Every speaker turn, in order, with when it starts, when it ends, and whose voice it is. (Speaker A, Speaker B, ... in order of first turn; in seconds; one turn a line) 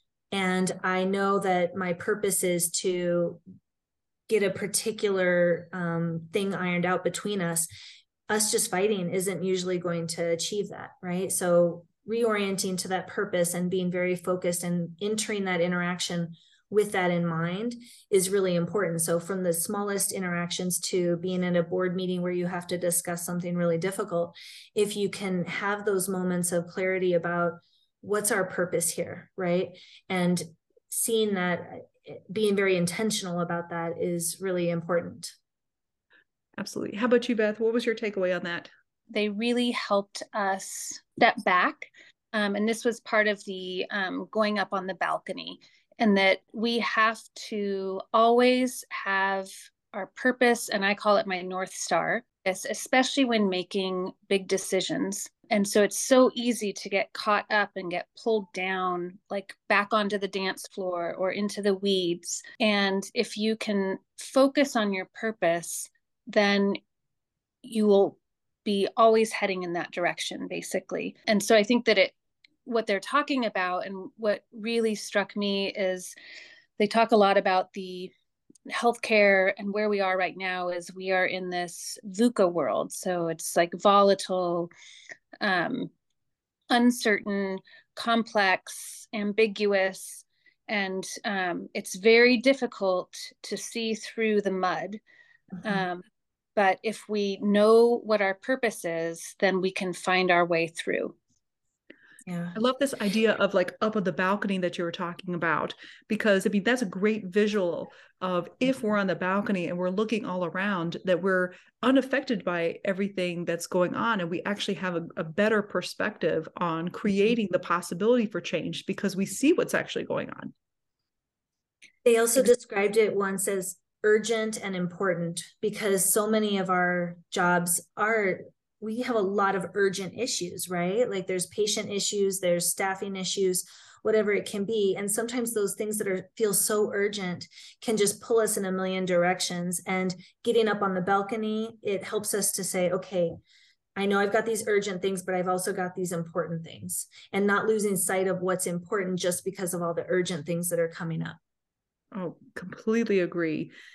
Speaker A: 0.3-3.4
Speaker A: 4.3-7.7
Speaker A: 8.3-35.3
Speaker B: 36.6-38.7
Speaker C: 39.1-66.8
Speaker C: 67.6-72.1
Speaker C: 72.7-76.1
Speaker C: 76.8-78.1
Speaker C: 78.7-84.7
Speaker C: 85.4-85.9
Speaker C: 86.7-95.0
Speaker C: 95.6-96.0
Speaker C: 96.6-101.1
Speaker A: 102.2-102.6
Speaker B: 102.5-120.5
Speaker A: 122.0-143.4
Speaker A: 144.0-151.4
Speaker B: 152.1-153.7